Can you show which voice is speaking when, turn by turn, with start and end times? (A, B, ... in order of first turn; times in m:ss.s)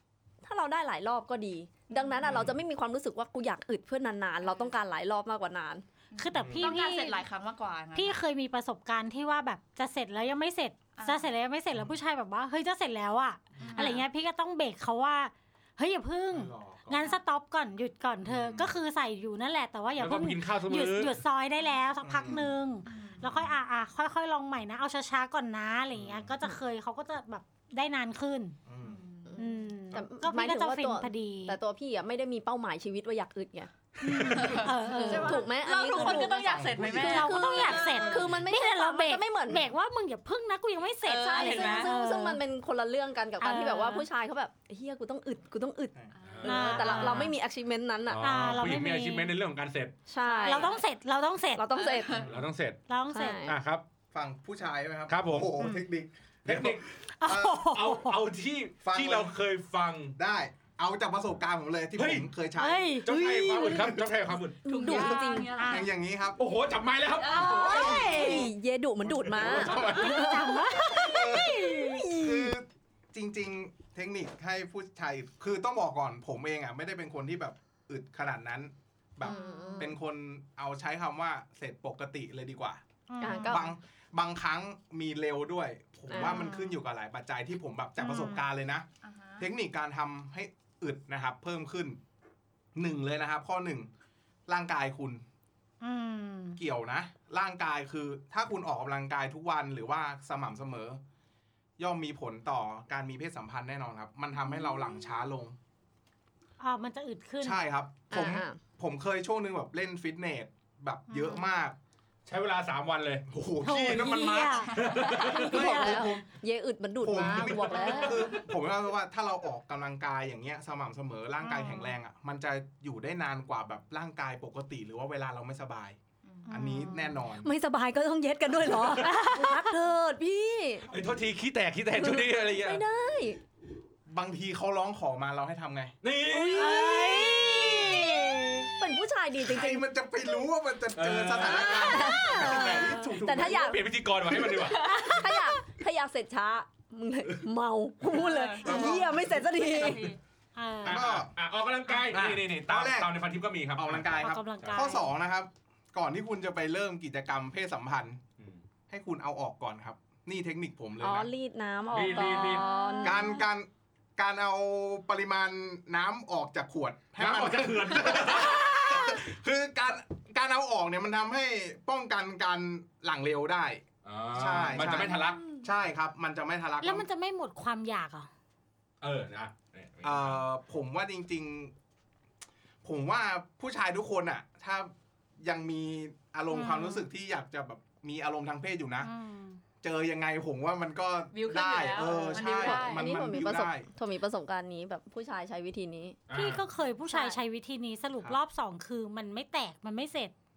0:00.4-0:05.8 A
0:01.9-0:02.3 B
0:02.2-0:02.6 C
0:04.4-0:04.7 B
0:06.1-0:08.2 B
0:06.2-0:07.2 D
0:06.4-0:06.7 C
0:07.9-0:28.6 D
0:10.9-0:11.3 B
0:13.6-0:13.9 C
0:13.6-0:14.0 B
0:16.3-0:17.1 C
0:18.2-0:18.7 C
0:20.0-0:21.2 E
0:22.0-0:22.5 C
0:22.9-0:23.2 B
0:26.0-0:26.3 C
0:28.7-0:29.0 C
0:28.8-0:29.4 B
0:29.3-0:39.7 A
0:29.4-0:31.6 D
0:34.0-0:36.2 D
0:34.2-0:38.3 B
0:36.2-0:37.3 C
0:36.8-0:42.4 D
0:41.0-0:41.9 B
0:41.1-0:48.3 A
0:43.4-0:44.1 D
0:46.1-0:47.2 B
0:46.2-0:47.2 E
0:46.4-0:47.4 D
0:48.0-0:50.0 E
0:48.2-0:49.4 D
0:50.1-0:50.8 A
0:50.2-0:50.8 B
0:50.4-0:51.7 D
0:51.6-0:52.2 A
0:51.8-0:52.2 B
0:52.2-0:52.4 C
0:52.2-0:52.8 E
0:52.9-0:53.5 D
0:53.1-0:53.6 A
0:53.4-0:53.8 E
0:54.1-0:57.8 C
0:55.1-0:55.5 E
0:55.6-0:55.8 D
0:56.4-0:56.8 E
0:57.2-0:58.2 D
0:57.6-1:00.2 E
0:58.8-0:59.4 C
1:00.2-1:04.0 C
1:02.0-1:02.3 E
1:02.6-1:03.1 D
1:03.0-1:04.6 E
1:03.1-1:04.0 A
1:04.6-1:05.5 A
1:04.6-1:05.9 B
1:04.9-1:06.4 C
1:05.6-1:05.9 D
1:06.4-1:07.7 E
1:07.2-1:08.5 B
1:07.3-1:12.5 A
1:07.4-1:08.4 C
1:07.8-1:08.4 D
1:09.2-1:10.2 C
1:09.2-1:10.2 E
1:09.8-1:12.1 D
1:10.8-1:22.8 C
1:19.2-1:19.9 A
1:19.4-1:19.7 D
1:23.1-1:23.6 D
1:23.2-1:23.7 A
1:23.4-1:28.9 C
1:26.1-1:26.5 A
1:26.1-1:26.6 D
1:28.0-1:28.4 D
1:29.0-1:29.5 B
1:29.4-1:32.0 C
1:32.7-1:33.9 C
1:34.5-1:35.2 C
1:35.8-1:36.6 D
1:36.6-1:41.0 C
1:41.8-1:45.6 C
1:46.6-1:47.6 D
1:47.4-1:51.8 C
1:48.1-1:48.6 A
1:51.1-1:51.6 D
1:52.2-1:53.3 E
1:53.3-1:56.3 C
1:53.6-1:56.1 D
1:54.7-1:55.5 E
1:54.8-1:55.3 B
1:55.2-1:58.4 A
1:57.0-2:06.0 C
1:57.7-1:58.0 D
2:01.4-2:01.9 D
2:06.2-2:06.5 B
2:06.5-2:07.2 D
2:06.5-2:07.5 C
2:07.4-2:10.9 A
2:08.7-2:09.0 E
2:08.9-2:09.7 D
2:10.9-2:12.8 E
2:11.9-2:13.4 A
2:14.1-2:16.0 C
2:16.0-2:16.8 E
2:16.3-2:19.8 A
2:16.5-2:18.7 D
2:19.4-2:23.8 C
2:20.9-2:22.2 E
2:21.6-2:23.8 A
2:21.8-2:22.9 D
2:23.3-2:24.9 E
2:24.5-2:25.4 B
2:24.7-2:30.2 A
2:28.1-2:30.2 B
2:28.6-2:29.5 C
2:30.5-2:31.0 D
2:30.8-2:31.3 C
2:30.8-2:34.9 E
2:32.1-2:33.2 C
2:33.7-2:38.2 C
2:34.1-2:35.1 D
2:38.9-2:41.3 C
2:41.0-2:43.4 A
2:41.9-2:42.7 E
2:42.6-2:43.2 D
2:43.0-2:57.1 C
2:47.2-2:49.2 E
2:54.0-2:55.4 E
2:55.1-2:55.6 B
2:56.8-2:58.3 D
2:59.0-3:00.4 E
3:00.0-3:01.7 C
3:02.8-3:09.1 C
3:06.5-3:07.0 D
3:09.0-3:09.6 D
3:09.8-3:13.9 C
3:11.3-3:13.2 B
3:12.0-3:16.2 A
3:16.3-3:16.6 E
3:16.3-3:20.3 D
3:17.1-3:17.4 A